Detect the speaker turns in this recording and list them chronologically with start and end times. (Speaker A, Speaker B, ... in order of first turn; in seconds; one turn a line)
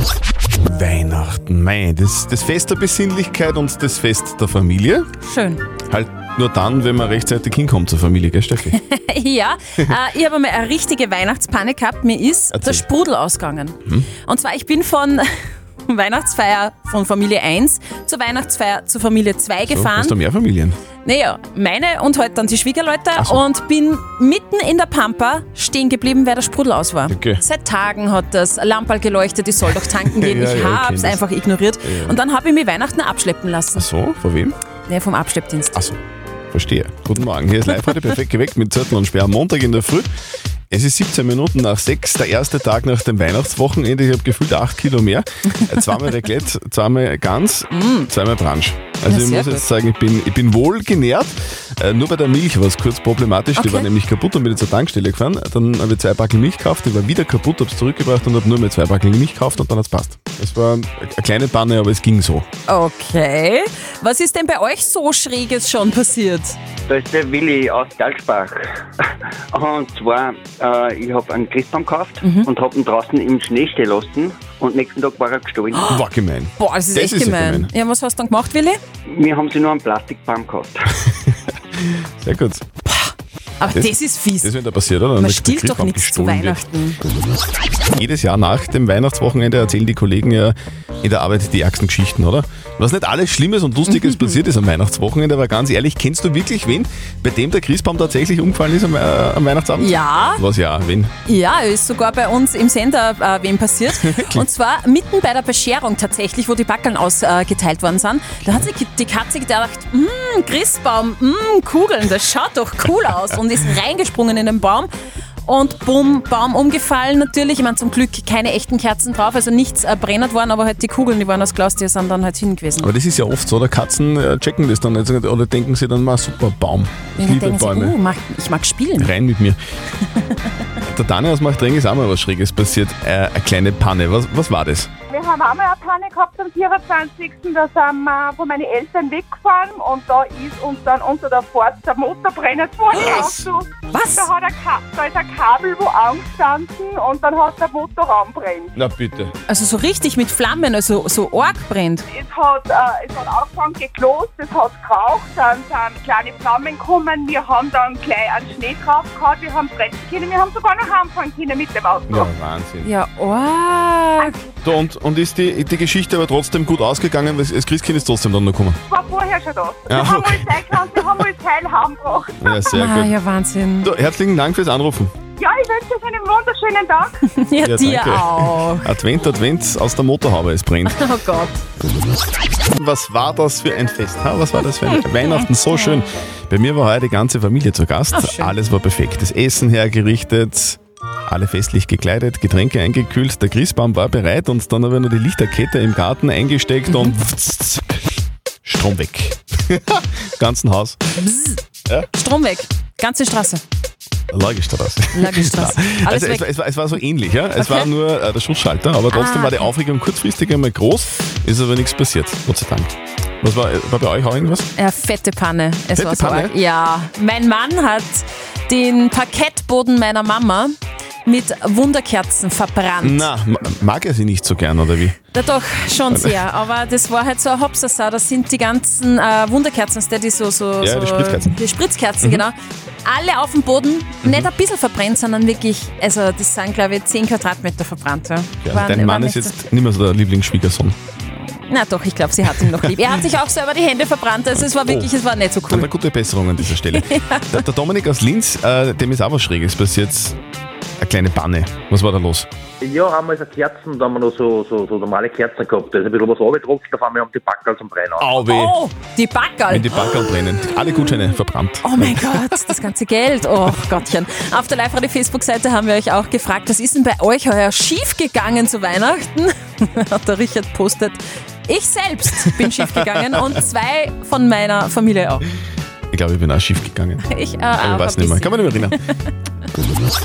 Speaker A: 0.7-5.0
Speaker B: 5.2-5.6
Speaker A: 5.9-8.8
Speaker B: 8.7-15.3
Speaker A: 12.5-12.8
Speaker B: 15.8-20.1
Speaker A: 19.7-20.8
Speaker B: 21.0-33.9
Speaker A: 23.1-23.4
Speaker A: 27.1-27.4
Speaker A: 29.9-31.2
Speaker A: 31.8-32.2
Speaker A: 33.7-34.5
Speaker B: 34.9-35.8
Speaker A: 36.5-40.1
Speaker A: 40.7-62.4
Speaker B: 47.7-48.1
Speaker B: 49.1-49.6
Speaker B: 53.5-53.9
Speaker B: 62.7-66.6
Speaker C: 66.9-68.8
Speaker C: 69.5-75.8
Speaker A: 75.8-77.7
Speaker B: 76.6-78.8
Speaker C: 79.0-80.9
Speaker A: 81.3-82.6
Speaker B: 82.8-84.5
Speaker A: 83.6-86.7
Speaker B: 85.2-87.0
Speaker A: 88.0-101.1
Speaker B: 93.9-94.4
Speaker B: 99.8-100.4
Speaker B: 101.2-114.9
Speaker A: 103.9-104.5
Speaker B: 115.5-122.9
Speaker A: 122.8-128.0
Speaker B: 127.2-129.1
Speaker A: 129.0-129.6
Speaker A: 130.8-134.9
Speaker D: 135.1-143.7
Speaker B: 142.9-143.3
Speaker B: 143.9-144.3
Speaker D: 144.3-148.7
Speaker A: 148.8-149.3
Speaker B: 149.5-152.1
Speaker D: 152.1-162.2
Speaker A: 162.1-162.9
Speaker B: 162.8-164.4
Speaker A: 164.6-168.8
Speaker D: 168.9-172.3
Speaker A: 169.9-171.2
Speaker A: 172.4-173.1
Speaker B: 172.7-173.9
Speaker A: 173.8-175.1
Speaker D: 175.4-177.1
Speaker B: 177.3-178.9
Speaker A: 177.6-181.0
Speaker B: 180.8-181.6
Speaker A: 182.7-198.1
Speaker B: 184.9-185.4
Speaker B: 188.1-188.5
Speaker B: 196.9-197.2
Speaker A: 198.6-201.0
Speaker B: 201.2-201.6
Speaker B: 202.1-203.6
Speaker A: 204.3-214.7
Speaker B: 205.1-206.4
Speaker B: 207.6-207.9
Speaker B: 209.1-209.7
Speaker B: 214.8-220.7
Speaker A: 215.9-216.5
Speaker B: 221.2-223.3
Speaker A: 223.0-225.2
Speaker B: 225.3-239.6
Speaker A: 226.1-226.4
Speaker A: 230.8-231.6
Speaker A: 238.6-240.9
Speaker B: 241.4-245.9
Speaker A: 244.5-250.4
Speaker B: 246.9-247.6
Speaker A: 251.0-252.5
Speaker E: 252.8-258.2
Speaker A: 258.2-258.8
Speaker B: 258.5-260.7
Speaker A: 259.7-262.3
Speaker B: 261.8-275.4
Speaker A: 276.1-279.0
Speaker B: 277.2-279.1